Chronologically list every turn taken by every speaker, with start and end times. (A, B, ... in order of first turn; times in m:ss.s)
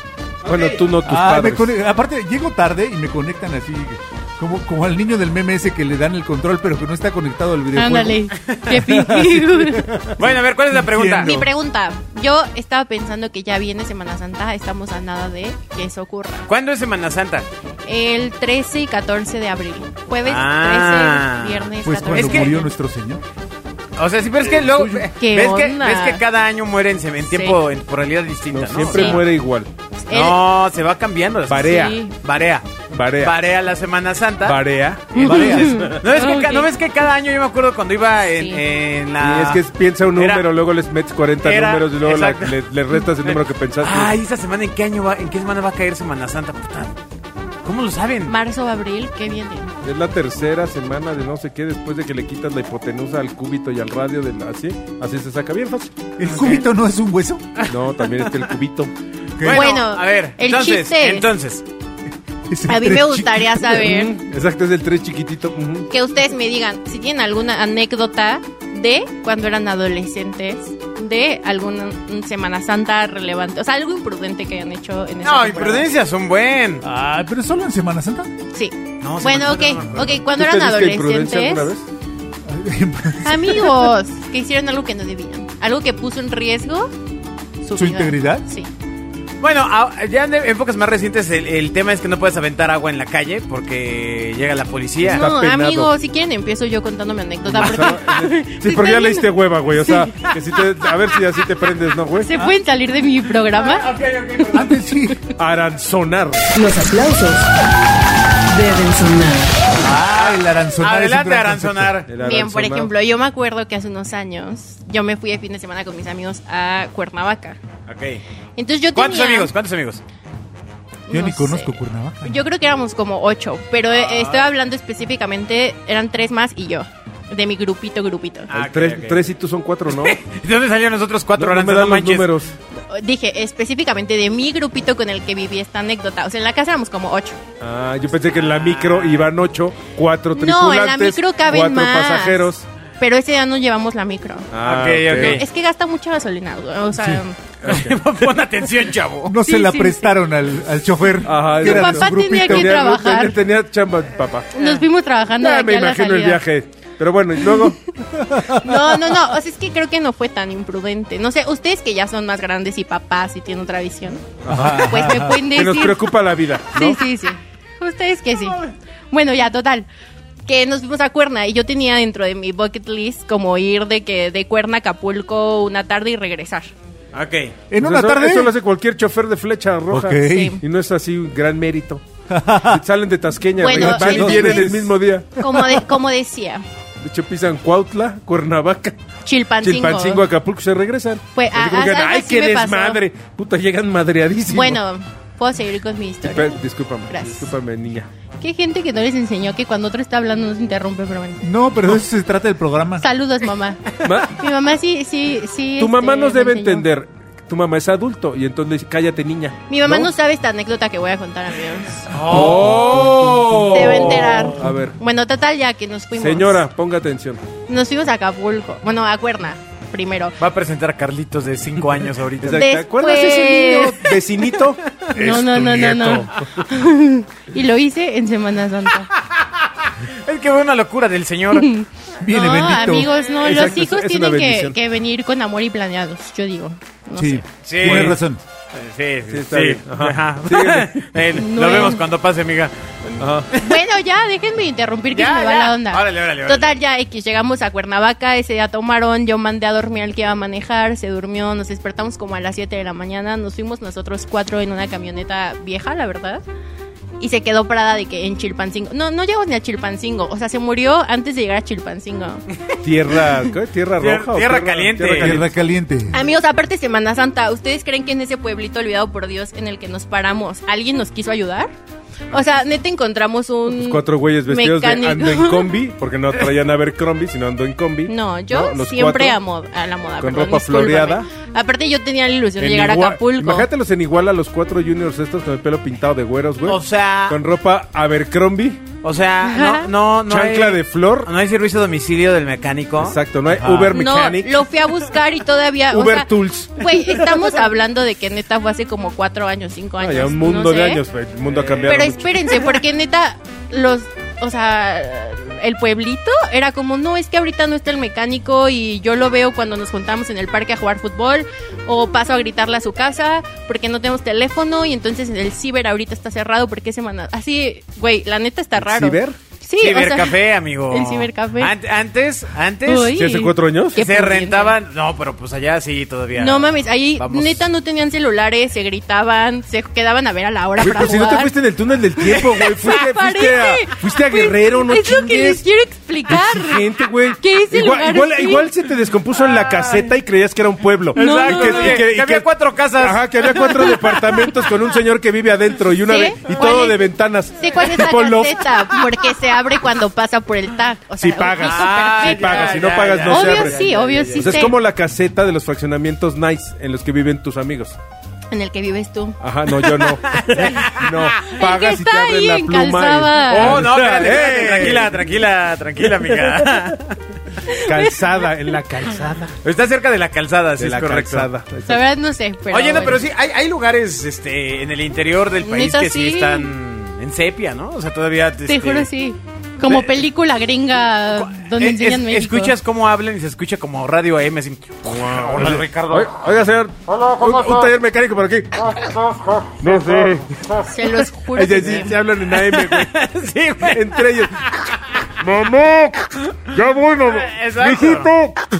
0:00.4-0:00.8 A
0:00.4-0:01.7 B
0:01.0-0:11.5 C
0:07.7-0:09.8 D
0:10.2-0:11.4 A
0:11.2-0:16.5 D
0:16.5-0:17.5 A
0:17.8-0:22.7 D
0:20.2-0:22.6 A
0:21.8-0:23.2 C
0:24.0-0:29.2 A
0:24.6-0:25.0 B
0:25.2-0:26.2 D
0:27.3-0:27.6 D
0:28.5-0:29.7 B
0:28.9-0:29.2 D
0:30.0-0:30.4 D
0:30.1-0:32.7 A
0:31.5-0:32.0 B
0:31.7-0:32.1 D
0:32.9-0:33.4 B
0:33.2-0:34.6 A
0:34.4-0:35.7 B
0:35.1-0:36.7 D
0:35.2-0:39.6 A
0:35.3-0:35.9 C
0:38.2-0:38.6 D
0:39.2-0:44.2 B
0:40.2-0:40.4 A
0:41.4-0:42.6 A
0:43.1-0:47.0 A
0:47.6-0:48.3 A
0:48.3-0:49.7 D
0:49.8-0:56.1 B
0:56.2-0:57.4 C
0:56.2-0:56.6 A
0:57.7-0:58.9 B
0:59.4-0:59.7 C
0:59.4-1:01.6 A
0:59.5-1:01.3 D
1:02.5-1:03.9 C
1:02.7-1:04.2 D
1:03.8-1:05.9 B
1:05.9-1:15.9 D
1:15.2-1:16.8 A
1:16.8-1:18.3 C
1:18.5-1:21.7 D
1:19.0-1:20.2 A
1:20.3-1:21.9 B
1:22.5-1:23.8 C
1:23.2-1:26.9 D
1:27.6-1:28.7 D
1:27.8-1:28.4 C
1:29.4-1:35.3 A
1:35.0-1:35.9 B
1:35.0-1:40.3 D
1:37.4-1:42.3 B
1:42.2-1:43.9 D
1:43.5-1:44.8 A
1:44.6-1:45.2 C
1:45.4-1:46.5 B
1:46.5-1:47.5 E
1:48.5-1:49.7 E
1:49.8-1:52.0 C
1:49.8-1:52.1 A
1:52.1-1:52.9 B
1:52.2-1:57.6 D
1:57.9-1:58.2 A
1:58.6-1:59.5 D
1:59.0-2:00.0 A
2:01.1-2:08.5 D
2:01.1-2:02.4 C
2:03.9-2:04.5 A
2:08.5-2:09.3 A
2:08.5-2:10.2 B
2:09.9-2:12.3 A
2:11.4-2:12.5 B
2:12.8-2:17.4 D
2:17.6-2:22.6 B
2:18.3-2:19.3 A
2:20.4-2:22.5 D
2:23.0-2:24.5 D
2:24.5-2:25.4 B
2:24.6-2:25.4 A
2:25.1-2:27.4 D
2:27.0-2:27.2 C
2:27.6-2:29.4 A
2:29.3-2:32.9 C
2:29.4-2:30.2 D
2:31.2-2:34.6 B
2:31.6-2:33.4 D
2:34.6-2:36.4 D
2:34.6-2:34.8 A
2:35.4-2:38.2 B
2:37.4-2:37.7 D
2:38.4-2:38.8 C
2:38.5-2:46.1 D
2:44.4-2:47.1 B
2:44.5-2:45.4 C
2:46.7-2:49.9 D
2:50.5-2:56.7 D
2:57.1-2:57.6 A
2:57.7-2:58.5 C
2:57.8-3:02.0 B
2:59.9-3:00.6 C
3:00.3-3:00.6 D
3:02.3-3:02.8 C
3:02.6-3:05.6 B
3:03.6-3:06.6 D
3:03.7-3:04.9 C
3:07.0-3:09.0 B
3:09.3-3:10.2 D
3:09.6-3:14.8 B
3:11.4-3:13.0 D
3:14.5-3:17.5 D
3:16.2-3:18.1 B
3:18.4-3:21.4 D
3:21.4-3:23.1 C
3:23.0-3:26.9 D
3:24.0-3:24.4 B
3:25.8-3:30.1 B
3:29.7-3:32.1 D
3:32.1-3:34.3 A
3:32.2-3:35.0 B
3:32.4-3:33.6 C
3:33.7-3:36.6 D
3:36.2-3:37.4 B
3:37.7-3:40.4 D
3:40.4-3:42.8 A
3:42.4-3:46.6 B
3:42.6-3:44.2 D
3:45.2-3:49.1 D
3:49.4-3:51.7 A
3:51.5-3:57.4 D
3:52.2-3:53.1 C
3:53.4-3:54.8 B
3:57.2-3:58.4 C
3:57.6-3:58.2 A
3:57.8-3:58.2 B
3:58.7-4:03.8 A
3:59.3-4:01.0 B
4:01.3-4:02.0 D
4:03.2-4:03.5 B
4:03.6-4:16.4 D
4:05.1-4:06.7 A
4:17.2-4:22.4 D
4:22.8-4:25.5 B
4:24.0-4:25.4 A
4:25.2-4:26.2 C
4:26.1-4:31.7 D
4:32.3-4:35.7 D
4:33.7-4:39.4 B
4:38.1-4:43.7 D
4:40.2-4:41.3 B
4:42.6-4:48.8 B
4:46.7-4:47.4 A
4:49.0-4:54.0 A
4:49.4-4:49.9 D
4:50.3-4:51.3 B
4:53.0-4:54.6 B
4:53.9-5:01.0 D
4:55.9-4:56.9 B
5:00.0-5:02.6 B
5:01.5-5:02.0 A
5:01.9-5:21.7 D
5:18.8-5:19.4 B
5:19.8-5:23.2 A
5:22.9-5:24.8 D
5:23.1-5:24.0 B
5:24.0-5:27.6 A
5:26.4-5:31.5 D
5:30.8-5:35.6 B
5:32.2-5:38.7 D
5:36.3-5:42.5 B
5:39.6-5:40.0 A
5:41.2-5:43.9 A
5:41.2-5:42.0 D
5:43.0-5:48.8 B
5:43.5-5:44.6 D
5:46.1-5:54.8 D
5:51.2-5:53.8 B
5:51.6-5:54.7 A
5:54.3-5:58.0 B
5:58.5-5:59.4 D
5:59.4-6:05.2 B
5:59.9-6:01.5 A
6:01.4-6:03.9 D
6:03.5-6:07.2 A
6:06.0-6:06.9 B
6:07.7-6:08.2 D
6:07.7-6:09.6 B
6:09.6-6:11.5 A
6:10.8-6:12.0 B
6:11.9-6:13.2 D
6:12.7-6:19.1 A
6:15.6-6:16.7 D
6:18.7-6:22.7 D
6:19.8-6:20.2 A
6:21.3-6:26.3 A
6:25.0-6:30.9 B
6:30.8-6:32.1 D
6:31.5-6:33.2 B
6:32.5-6:35.0 A
6:33.8-6:34.7 B
6:35.4-6:38.6 B
6:37.3-6:38.3 A